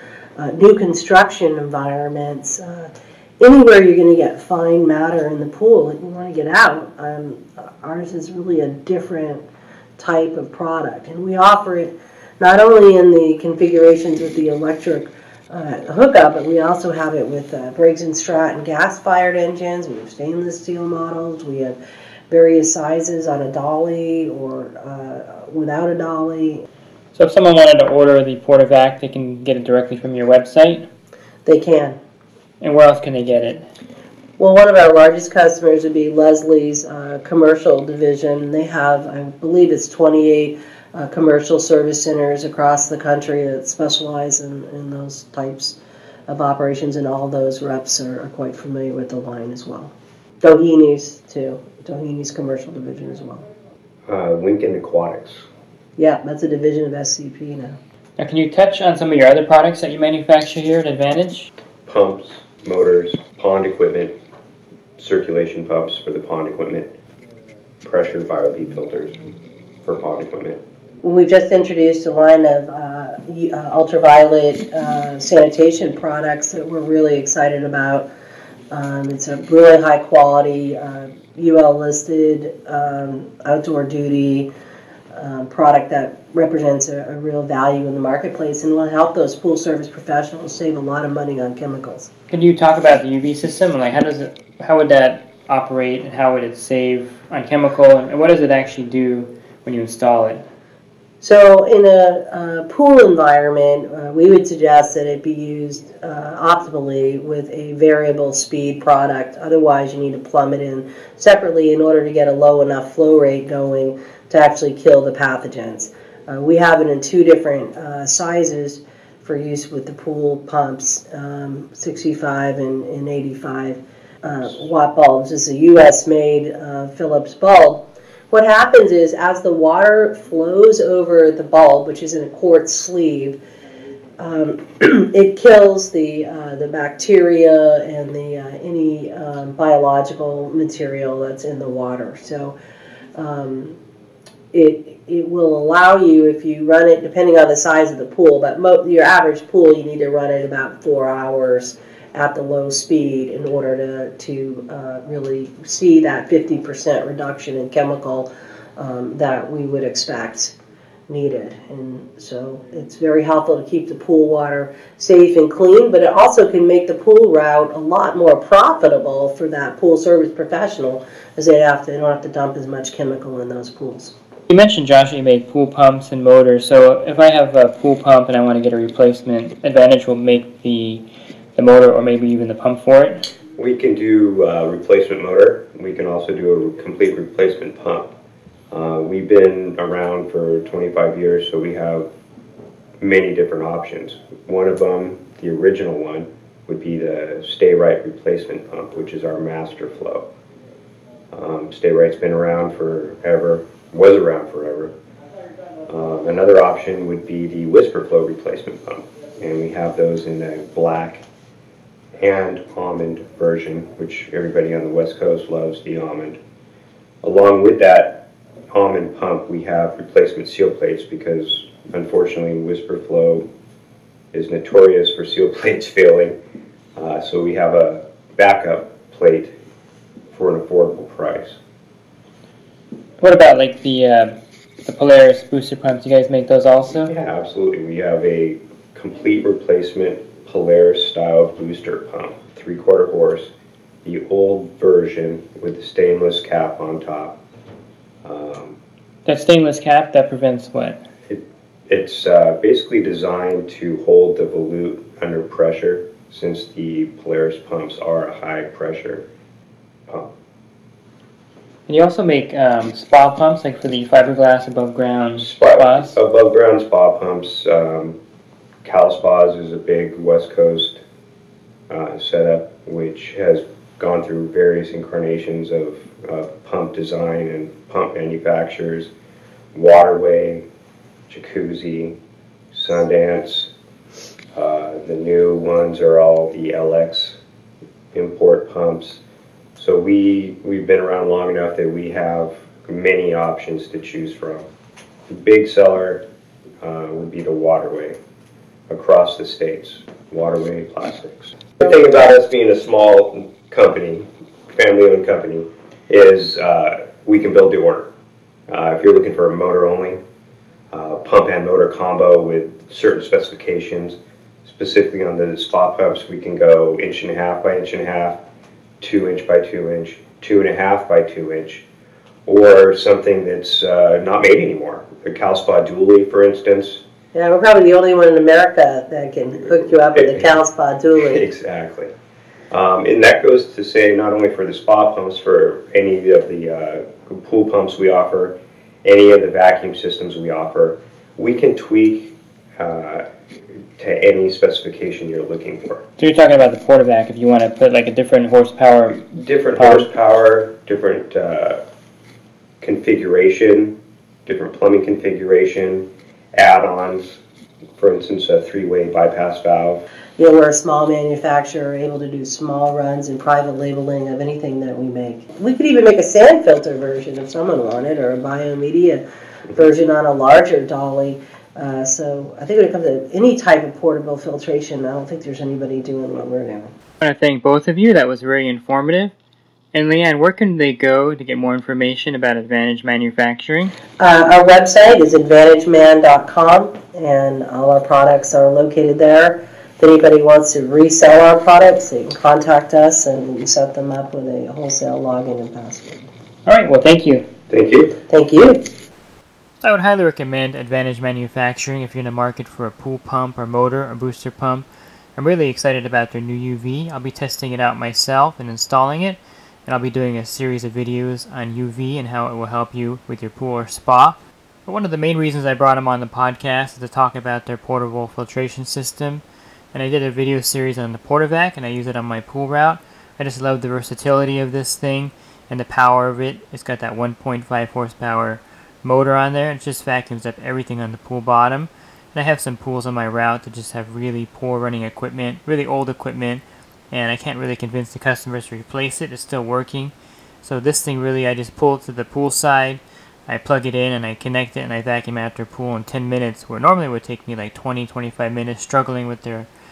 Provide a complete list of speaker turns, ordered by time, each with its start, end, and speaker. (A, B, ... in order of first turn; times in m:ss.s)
0:00.4-0:09.4 A
0:10.0-0:21.8 A
0:22.3-0:26.6 A
0:27.1-0:30.9 B
0:31.4-0:32.0 A
0:32.6-0:33.7 B
0:34.4-0:53.4 A
0:54.1-0:55.4 C
0:56.0-0:57.8 A
0:58.2-1:01.5 B
1:01.8-1:04.1 C
1:05.0-1:06.9 C
1:07.8-1:09.2 C
1:09.8-1:10.6 C
1:11.0-1:18.1 A
1:18.7-1:24.5 A
1:25.1-1:32.1 A
1:32.3-1:40.4 B
1:41.2-2:13.4 A
2:14.2-2:22.6 A
2:23.2-2:23.8 A
2:24.5-2:40.5 A
2:41.1-2:54.1 A
2:54.5-3:01.0 B
3:01.5-3:03.3 B
3:03.6-3:08.1 C
3:08.7-3:12.1 C
3:13.0-3:20.3 C
3:21.3-3:24.9 C
3:25.9-3:31.2 C
3:32.2-3:36.4 C
3:37.2-3:43.5 C
3:44.3-3:46.4 C
3:47.0-3:49.5 C
3:50.3-3:51.6 C
3:53.2-3:57.1 B
3:57.0-4:03.5 C
4:04.0-4:07.4 C
4:08.2-4:08.8 C
4:09.2-4:11.0 B
4:11.3-4:19.2 C
4:21.9-4:26.2 B
4:25.4-4:28.2 C
4:28.8-4:31.0 C
4:31.9-4:39.1 C
4:39.7-4:40.6 C
4:41.3-4:42.2 C
4:42.7-4:43.7 C
4:44.5-4:47.4 C
4:48.1-4:49.2 C
4:49.8-4:54.6 C
4:55.3-4:56.2 C
4:56.8-4:58.2 C
4:58.9-5:08.1 C
5:08.7-5:10.2 C
5:10.9-5:18.4 C
5:19.0-5:21.8 C
5:22.4-5:27.0 C
5:27.3-5:31.5 A
5:30.2-5:30.5 C
5:31.2-5:32.1 C
5:32.7-5:43.2 C
5:44.0-5:46.0 C
5:46.2-5:50.1 B
5:49.4-5:51.8 C
5:52.8-5:57.4 C
5:58.0-6:00.0 C
6:00.4-6:16.9 A
6:17.2-6:19.3 B
6:19.9-6:23.9 B
6:24.2-6:36.2 A
6:36.6-6:37.5 B
6:37.7-6:38.2 C
6:38.3-6:38.8 A
6:39.8-6:44.9 B
6:45.4-7:20.1 B
7:20.6-7:29.7 B